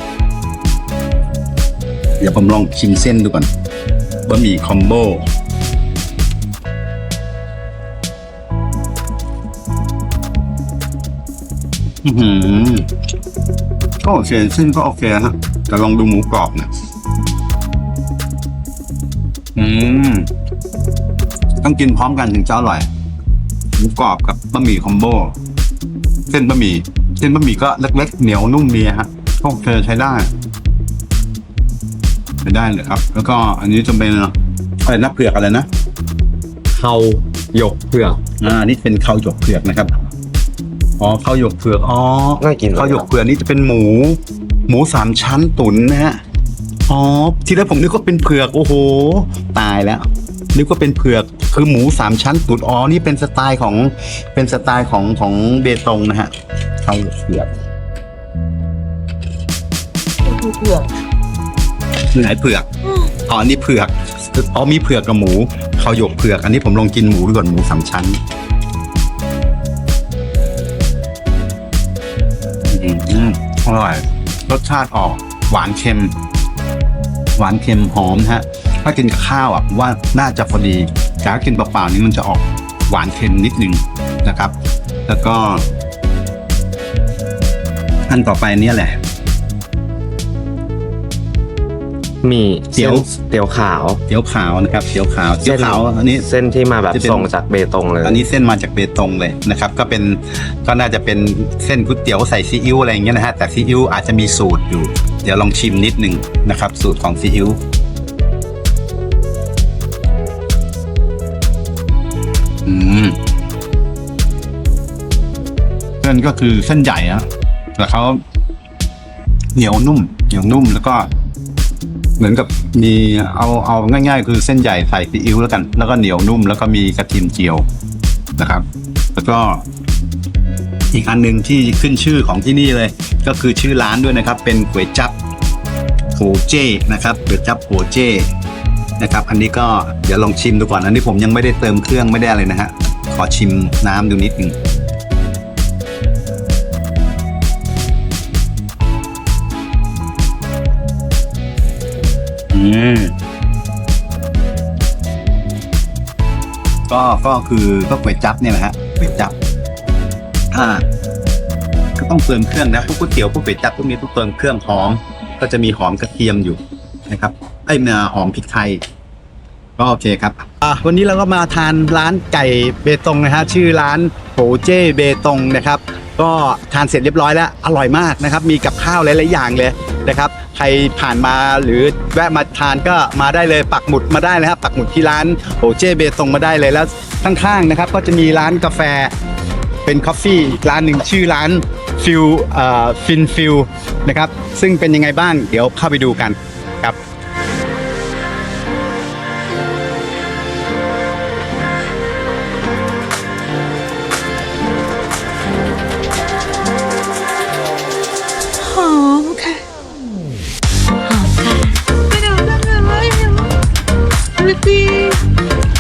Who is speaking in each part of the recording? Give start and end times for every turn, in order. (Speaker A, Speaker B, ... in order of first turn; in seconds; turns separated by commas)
Speaker A: 2.2-3.5, Speaker A: 4.3-5.3, Speaker A: 12.0-12.9, Speaker A: 14.0-16.7, Speaker A: 19.6-20.3, Speaker A: 21.6-22.9, Speaker A: 23.8-25.4, Speaker A: 26.3-30.3, Speaker A: 32.4-34.3, Speaker A: 34.9-35.7, Speaker B: 36.7-38.2, Speaker A: 38.4-39.9, Speaker A: 41.0-46.2, Speaker B: 42.4-43.1, Speaker A: 46.9-56.3, Speaker A: 56.8-57.5, Speaker C: 60.2-60.9, Speaker A: 62.1-62.7, Speaker A: 63.3-68.2, Speaker A: 72.7-76.2, Speaker A: 77.4-84.5, Speaker A: 85.1-85.6, Speaker A: 88.1-89.0, Speaker B: 92.2-94.0, Speaker A: 92.7-93.1, Speaker A: 94.1-96.3, Speaker B: 95.4-98.2, Speaker A: 96.9-97.3, Speaker A: 98.0-107.6, Speaker A: 112.7-113.2, Speaker A: 116.0-118.2, Speaker A: 119.5-121.1, Speaker A: 122.2-127.7, Speaker A: 128.4-129.7, Speaker A: 130.9-135.1, Speaker A: 136.2-138.3, Speaker A: 139.0-144.6, Speaker A: 152.5-153.1, Speaker A: 156.9-159.3, Speaker A: 160.5-160.8, Speaker A: 162.0-168.8, Speaker A: 169.8-189.1, Speaker A: 189.8-197.0, Speaker C: 208.6-209.6, Speaker C: 211.1-213.5, Speaker C: 214.4-215.2